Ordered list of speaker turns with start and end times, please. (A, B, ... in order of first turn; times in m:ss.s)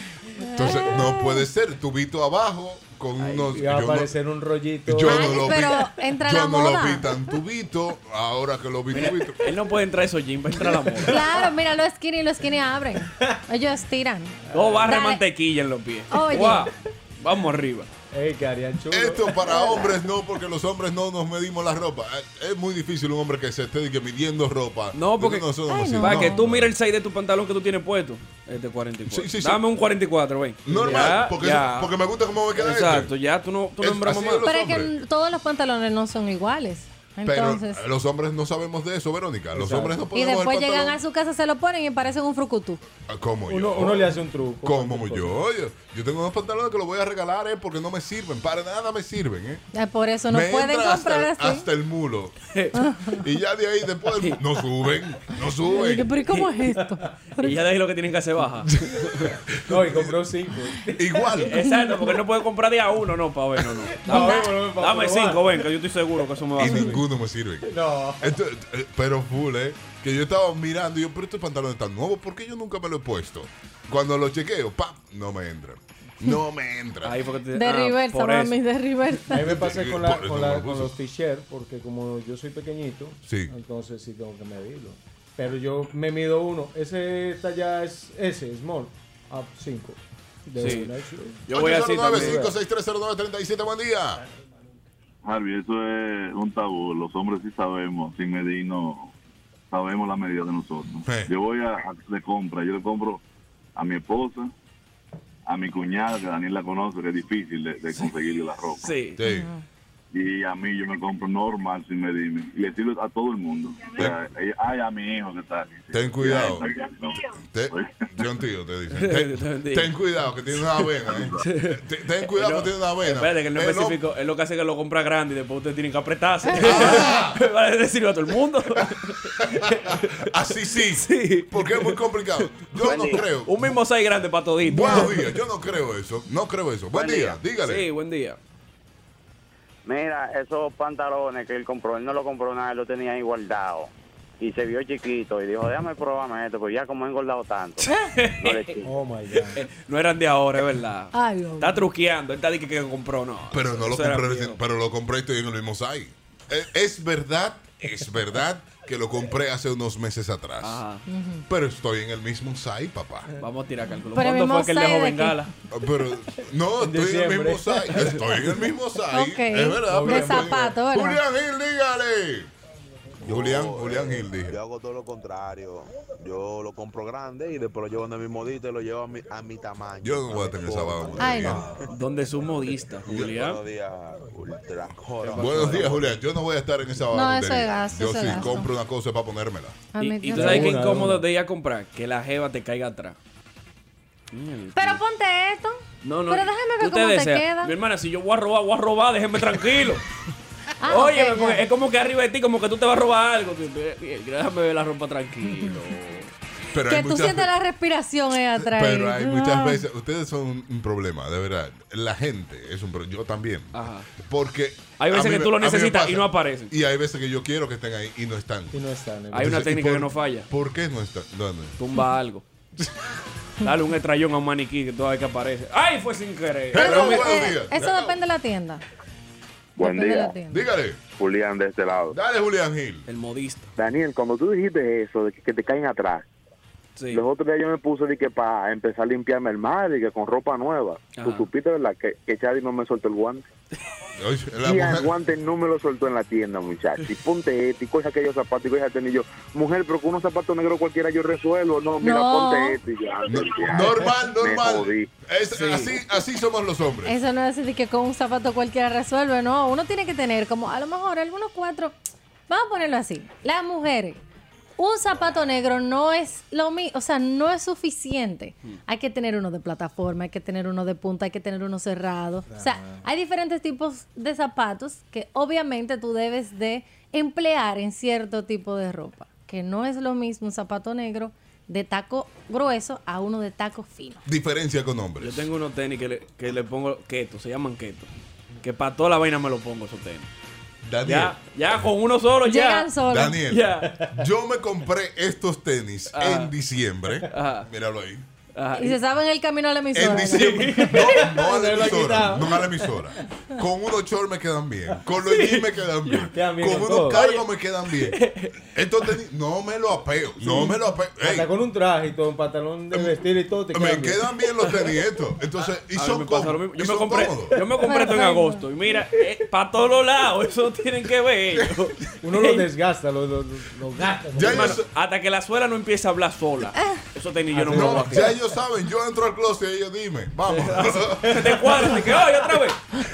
0:00.4-0:01.5 A
0:00.5-0:04.1 B
0:03.2-0:03.6 C
0:03.5-0:05.4 D
0:04.9-0:09.4 B
0:05.0-0:07.2 A
0:09.1-0:11.2 C
0:10.8-0:11.5 D
0:11.0-0:15.2 A
0:14.5-0:14.9 D
0:14.5-0:17.9 C
0:16.1-0:16.7 A
0:18.1-0:19.8 D
0:18.9-0:26.7 B
0:24.9-0:31.9 C
0:25.7-0:26.5 A
0:29.1-0:29.6 B
0:30.7-0:33.1 B
0:30.7-0:31.2 D
0:32.5-0:34.4 C
0:33.8-0:34.9 B
0:34.4-0:37.8 A
0:37.2-0:41.0 B
0:39.5-0:40.0 D
0:40.1-0:42.8 A
0:43.1-0:44.1 B
0:43.5-0:45.4 D
0:44.6-0:49.6 B
0:49.7-0:51.6 A
0:50.3-0:52.4 B
0:52.5-0:52.8 C
0:52.7-0:53.2 A
0:53.2-0:56.1 B
0:55.7-0:57.6 A
0:57.4-0:59.3 C
0:59.6-1:00.1 B
0:59.7-1:01.2 D
1:01.0-1:01.5 B
1:01.4-1:07.0 C
1:01.5-1:02.2 A
1:04.0-1:05.6 D
1:04.1-1:04.5 A
1:06.6-1:07.7 B
1:07.7-1:08.3 D
1:08.2-1:17.2 B
1:17.0-1:18.6 C
1:17.5-1:19.4 A
1:19.3-1:32.6 D
1:19.4-1:20.9 B
1:23.2-1:23.5 B
1:30.6-1:30.9 C
1:31.5-1:32.4 C
1:31.5-1:34.2 B
1:35.2-1:39.1 E
1:39.7-1:43.2 E
1:41.0-1:41.3 B
1:43.8-1:44.5 E
1:45.5-1:48.9 E
1:48.8-1:49.2 C
1:49.2-1:49.5 B
1:49.2-1:49.6 A
1:50.1-1:58.0 E
1:55.9-1:56.6 B
1:57.4-2:04.0 B
1:58.9-1:59.9 C
2:01.1-2:01.4 E
2:01.4-2:10.2 C
2:06.6-2:07.4 B
2:06.7-2:07.2 A
2:09.4-2:13.5 B
2:10.9-2:12.0 C
2:12.8-2:15.3 C
2:12.9-2:13.2 F
2:14.6-2:17.8 B
2:16.9-2:17.4 F
2:17.6-2:18.4 C
2:19.8-2:28.9 F
2:27.8-2:28.7 C
2:28.8-2:29.6 D
2:29.5-2:34.6 C
2:31.1-2:31.8 A
2:33.5-2:40.8 B
2:40.6-2:41.0 C
2:41.1-2:41.4 A
2:41.5-2:43.3 B
2:43.4-2:45.5 C
2:44.1-2:45.5 A
2:45.7-2:52.5 B
2:46.8-2:48.0 D
2:49.1-2:51.2 A
2:49.8-2:50.8 D
2:53.2-3:01.8 G
2:53.2-2:54.6 B
3:00.0-3:01.6 B
3:01.2-3:01.6 A
3:01.9-3:03.6 C
3:03.0-3:06.2 G
3:05.3-3:05.9 C
3:05.3-3:09.8 B
3:07.1-3:08.7 A
3:09.9-3:10.8 A
3:10.0-3:13.2 C
3:10.3-3:11.2 D
3:14.3-3:15.0 C
3:14.8-3:17.7 A
3:16.0-3:20.0 C
3:20.8-3:21.6 A
3:20.8-3:26.3 C
3:25.5-3:25.8 A
3:26.7-3:27.5 B
3:26.8-3:29.8 A
3:28.6-3:38.8 B
3:33.7-3:34.1 C
3:35.0-3:36.7 C
3:38.7-3:39.6 D
3:39.3-3:40.5 C
3:39.3-3:41.7 B
3:41.8-3:42.4 C
3:43.6-3:47.3 C
3:46.7-3:48.2 B
3:46.7-3:48.8 A
3:49.8-3:50.6 A
3:49.8-3:50.4 F
3:50.5-3:51.0 B
3:51.2-3:52.2 F
3:52.1-3:53.1 B
3:53.1-3:53.7 C
3:53.8-3:56.2 F
3:57.0-3:57.2 C
3:57.1-4:03.4 F
4:01.2-4:01.5 C
4:04.2-4:05.1 B
4:04.6-4:15.1 F
4:12.0-4:12.8 A
4:13.2-4:17.1 B
4:15.5-4:16.0 C
4:17.0-4:22.0 A
4:22.5-4:24.2 A
4:24.8-4:44.2 A
4:32.5-4:33.0 D
4:44.2-4:45.5 B
4:45.2-4:48.1 C
4:48.6-4:50.3 C
4:50.8-4:51.4 B
4:51.0-4:52.9 C
4:52.4-4:53.4 A
4:53.1-4:58.2 B
4:53.5-4:53.9 C
4:53.8-4:54.1 D
4:56.1-4:56.5 C
4:57.3-4:57.7 C
4:58.5-4:59.0 C
4:58.8-5:00.6 A
4:59.9-5:08.2 B
5:00.4-5:03.1 D
5:06.3-5:07.3 D
5:07.1-5:07.4 C
5:08.2-5:08.5 C
5:08.7-5:11.5 B
5:10.4-5:14.2 D
5:13.7-5:17.6 B
5:16.0-5:22.7 C
5:17.8-5:18.6 A
5:22.2-5:24.8 D
5:24.3-5:28.3 C
5:24.4-5:24.8 B
5:27.5-5:28.4 D
5:27.7-5:31.4 B
5:30.5-5:32.8 C
5:31.4-5:31.6 D